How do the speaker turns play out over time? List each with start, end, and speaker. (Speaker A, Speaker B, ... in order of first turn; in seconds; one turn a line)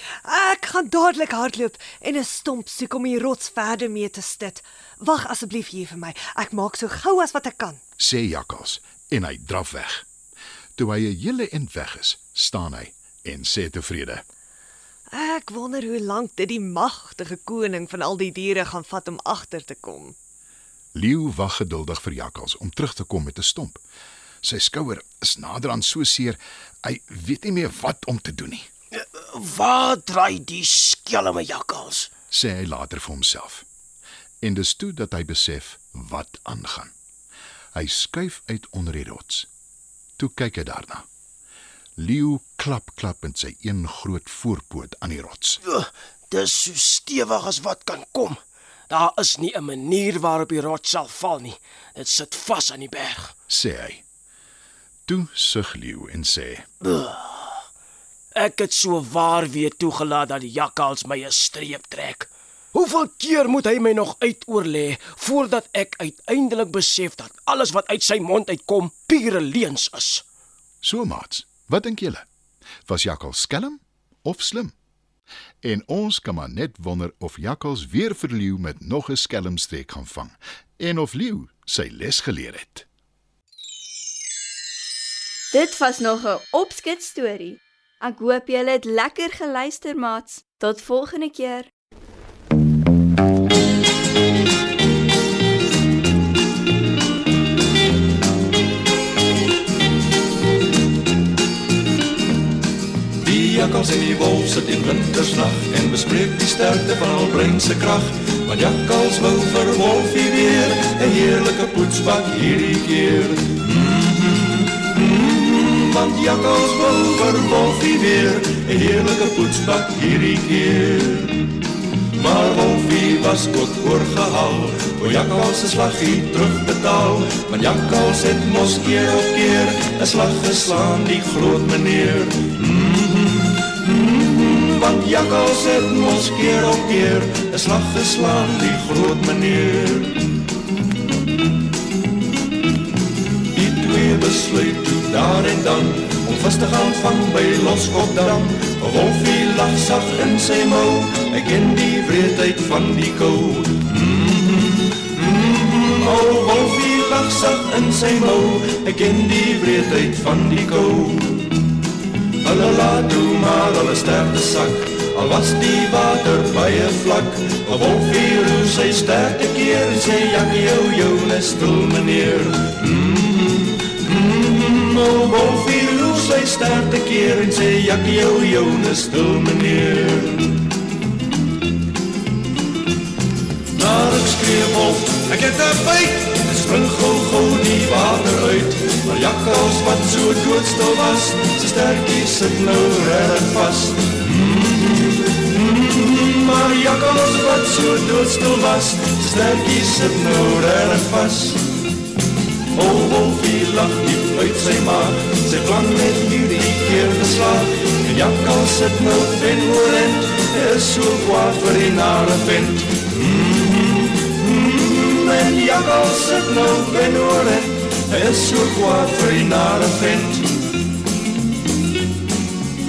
Speaker A: 0.2-7.8
Speaker B: 8.0-10.0
Speaker B: 10.8-14.2
Speaker A: 15.1-20.1
Speaker B: 20.9-23.8
Speaker B: 24.4-28.7
Speaker C: 29.0-32.1
Speaker B: 32.3-33.6
Speaker B: 34.4-36.9
Speaker B: 37.7-39.5
Speaker B: 40.2-41.0
Speaker B: 42.0-45.6
Speaker C: 45.7-48.4
Speaker C: 48.9-53.3
Speaker B: 53.5-54.0
Speaker B: 55.1-56.6
Speaker C: 58.4-70.2
Speaker B: 70.8-72.2
Speaker B: 72.8-74.7
Speaker B: 75.6-82.9
Speaker D: 85.5-91.7
Speaker E: 103.2-121.6
Speaker E: 122.2-140.4
Speaker E: 143.5-161.6
Speaker E: 162.4-180.7
Speaker E: 183.7-201.7
Speaker E: 202.7-220.6